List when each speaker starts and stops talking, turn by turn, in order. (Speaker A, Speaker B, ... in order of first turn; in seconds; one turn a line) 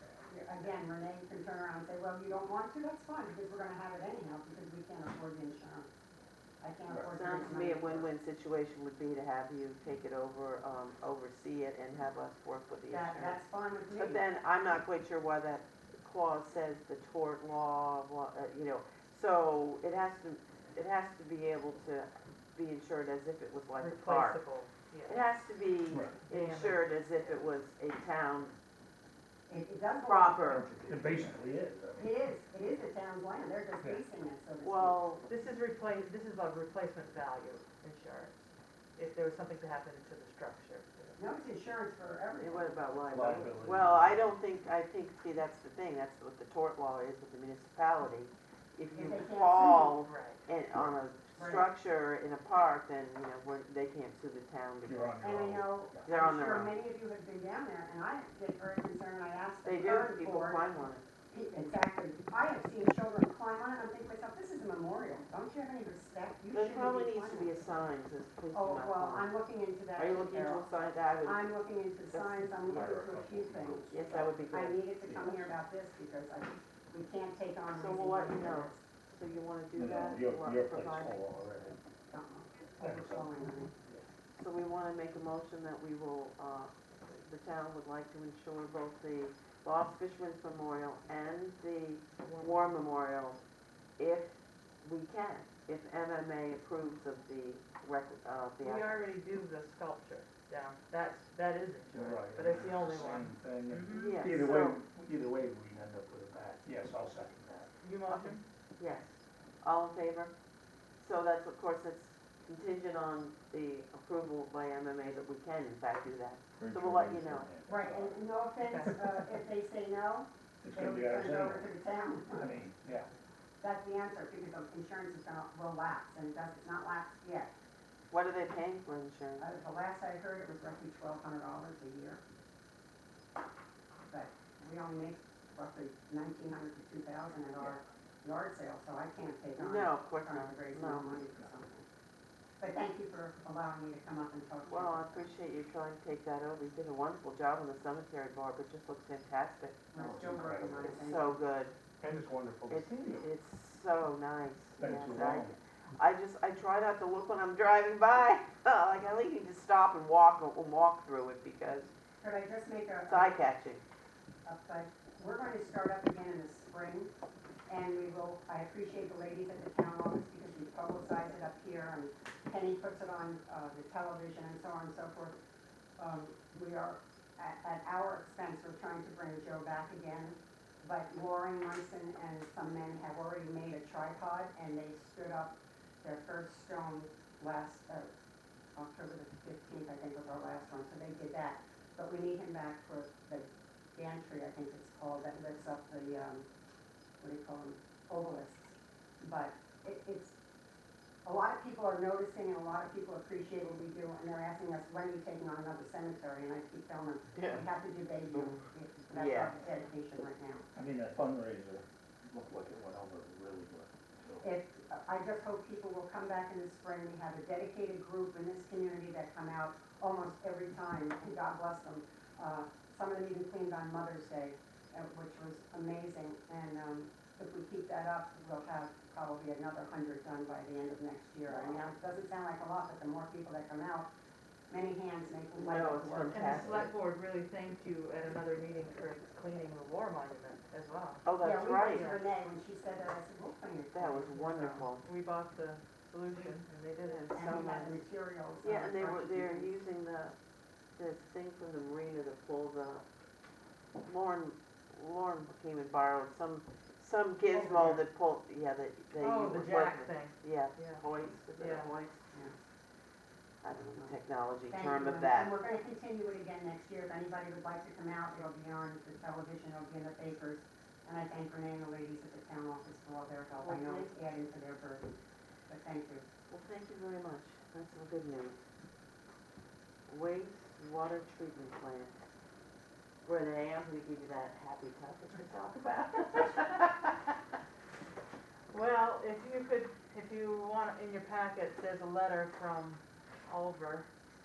Speaker A: 0.3-5.9
Speaker A: 6.6-8.1
Speaker B: 6.9-7.2
Speaker C: 7.1-13.4
Speaker A: 12.9-14.2
Speaker C: 13.9-24.4
Speaker D: 23.8-25.2
Speaker C: 25.1-28.5
Speaker B: 25.9-26.2
Speaker D: 26.3-26.8
Speaker A: 29.5-31.1
Speaker C: 29.9-30.9
Speaker B: 30.6-32.1
Speaker A: 32.0-35.0
Speaker C: 34.6-35.3
Speaker D: 35.3-41.2
Speaker A: 41.2-42.8
Speaker C: 42.4-55.2
Speaker B: 43.1-44.3
Speaker A: 48.9-50.0
Speaker D: 50.0-50.4
Speaker A: 51.4-51.7
Speaker B: 54.9-56.1
Speaker A: 55.2-60.7
Speaker C: 56.0-56.7
Speaker C: 59.6-61.0
Speaker A: 61.3-67.6
Speaker C: 66.5-69.3
Speaker A: 68.5-70.7
Speaker C: 70.0-71.5
Speaker A: 71.2-78.8
Speaker C: 72.1-73.0
Speaker B: 72.5-74.3
Speaker C: 73.9-74.8
Speaker B: 75.0-75.5
Speaker C: 77.7-81.2
Speaker B: 79.7-81.8
Speaker A: 82.1-83.7
Speaker B: 82.8-83.3
Speaker C: 84.4-93.4
Speaker D: 92.2-92.8
Speaker C: 94.0-98.9
Speaker D: 98.6-104.2
Speaker B: 101.9-107.7
Speaker C: 103.9-104.8
Speaker D: 107.8-108.4
Speaker C: 108.1-110.3
Speaker C: 111.0-117.5
Speaker B: 116.6-118.2
Speaker A: 117.7-122.6
Speaker D: 118.7-119.1
Speaker B: 120.6-121.6
Speaker B: 122.4-123.1
Speaker A: 123.6-127.5
Speaker C: 128.1-129.5
Speaker A: 129.4-132.2
Speaker A: 134.1-141.9
Speaker C: 139.6-141.3
Speaker A: 142.6-145.3
Speaker C: 144.7-149.9
Speaker A: 149.9-151.4
Speaker B: 150.0-150.9
Speaker C: 150.8-151.7
Speaker B: 152.0-153.3
Speaker C: 152.7-161.9
Speaker B: 154.8-155.6
Speaker A: 162.2-163.4
Speaker C: 163.1-163.8
Speaker A: 164.4-167.1
Speaker A: 167.7-175.4
Speaker A: 176.0-188.1
Speaker A: 188.8-196.5
Speaker A: 197.2-200.3
Speaker A: 201.2-210.7
Speaker C: 207.3-207.7
Speaker C: 208.3-209.6
Speaker B: 210.8-214.5
Speaker A: 214.4-234.1
Speaker A: 234.7-236.8
Speaker C: 235.6-236.9
Speaker D: 236.3-241.2
Speaker C: 241.2-242.1
Speaker A: 241.4-244.9
Speaker D: 241.9-242.2
Speaker C: 243.9-245.1
Speaker D: 245.0-247.3
Speaker C: 247.1-248.0
Speaker A: 247.3-249.7
Speaker C: 248.6-250.3
Speaker C: 251.0-253.1
Speaker C: 254.0-262.2
Speaker D: 257.5-258.0
Speaker D: 259.2-261.0
Speaker D: 261.6-261.9
Speaker C: 263.6-265.5
Speaker A: 263.8-264.2
Speaker A: 264.7-275.2
Speaker C: 273.6-274.1
Speaker A: 275.7-276.3
Speaker C: 276.5-278.6
Speaker C: 280.1-282.1
Speaker C: 283.2-287.1
Speaker D: 288.7-294.1